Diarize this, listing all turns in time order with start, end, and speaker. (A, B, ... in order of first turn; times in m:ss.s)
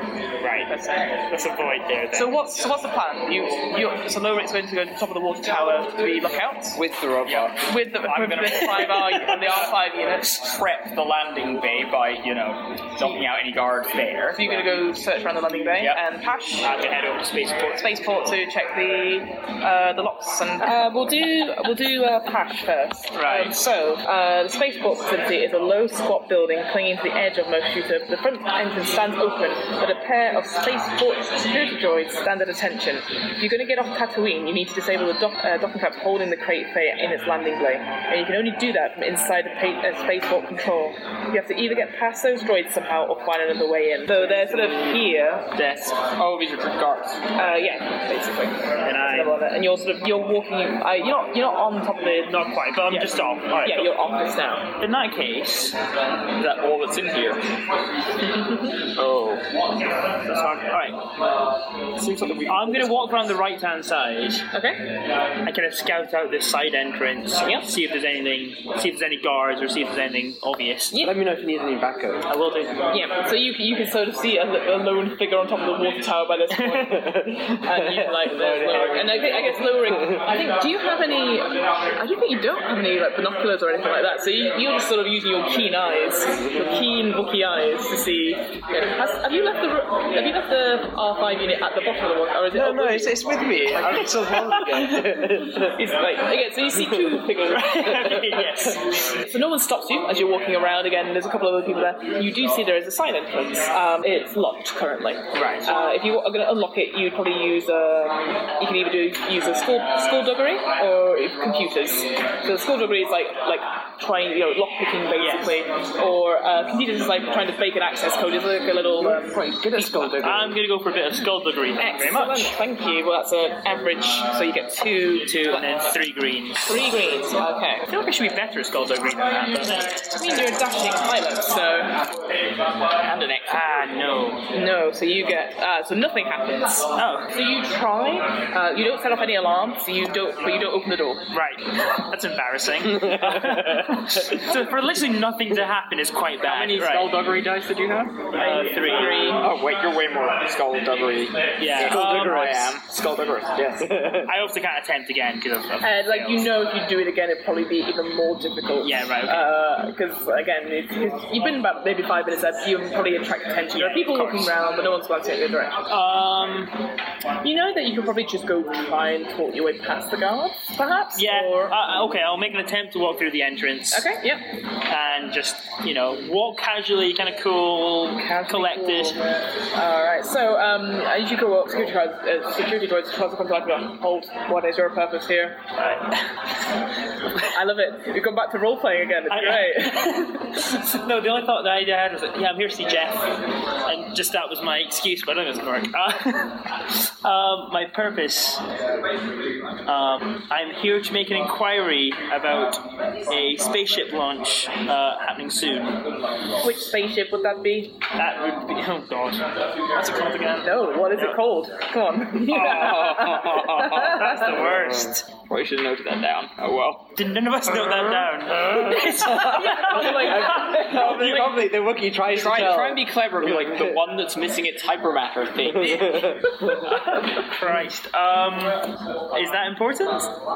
0:00.4-0:00.7 A
0:00.7-0:01.2 B
0:01.3-0:02.3 A
0:02.1-0:06.8 B
0:06.8-0:07.6 C
0:07.2-0:09.6 D
0:07.6-0:10.4 B
0:08.8-0:09.2 A
0:10.3-0:14.6 D
0:14.4-0:16.7 B
0:16.6-0:18.1 A
0:17.8-0:45.5 B
0:23.2-0:23.5 A
0:44.5-0:45.0 D
0:45.6-0:47.3 D
0:47.4-0:54.7 B
0:48.8-0:49.4 A
0:52.3-0:53.9 A
0:54.8-0:55.8 A
0:56.4-0:57.4 D
0:59.0-0:59.5 D
0:59.8-1:01.0 A
1:02.0-1:03.3 D
1:02.5-1:04.5 A
1:04.5-1:04.8 B
1:05.4-1:11.0 A
1:11.0-1:12.3 C
1:12.3-1:12.9 A
1:12.9-1:33.2 B
1:16.9-1:20.3 C
1:26.4-1:26.8 C
1:32.5-1:35.8 C
1:34.3-1:38.4 B
1:36.8-1:37.2 C
1:37.5-1:39.2 A
1:39.2-2:00.2 B
1:45.3-1:45.7 A
1:55.2-1:55.6 A
1:59.0-2:00.6 C
2:00.2-2:02.6 A
2:01.8-2:05.7 B
2:05.3-2:06.8 A
2:06.6-2:07.9 B
2:07.9-2:10.4 A
2:10.2-2:12.0 B
2:13.0-2:13.7 D
2:13.5-2:14.4 A
2:14.5-2:21.3 B
2:17.0-2:17.3 A
2:21.3-2:27.2 A
2:26.4-2:28.3 D
2:28.4-2:29.4 A
2:28.4-2:29.5 B
2:29.3-2:34.0 D
2:31.6-2:32.7 A
2:33.9-2:34.3 C
2:34.2-2:36.5 A
2:35.8-2:45.9 B
2:38.8-2:39.5 A
2:43.7-2:44.5 A
2:45.9-2:46.7 A
2:47.4-2:51.8 B
2:51.2-2:54.1 A
2:53.9-2:54.4 B
2:54.9-2:59.2 A
2:58.2-2:59.2 B
2:59.7-3:05.6 B
3:05.8-3:06.1 A
3:07.5-3:10.4 B
3:09.3-3:13.4 A
3:13.9-3:18.6 A
3:19.9-3:26.0 A
3:26.6-3:28.0 B
3:28.2-3:31.4 A
3:30.6-3:34.4 B
3:32.5-3:35.2 A
3:32.5-3:34.2 D
3:35.4-3:37.1 D
3:37.2-3:41.5 A
3:38.7-3:44.0 C
3:39.0-3:41.2 B
3:41.2-3:41.5 D
3:42.2-3:46.4 D
3:45.9-3:46.6 C
3:46.9-3:50.3 A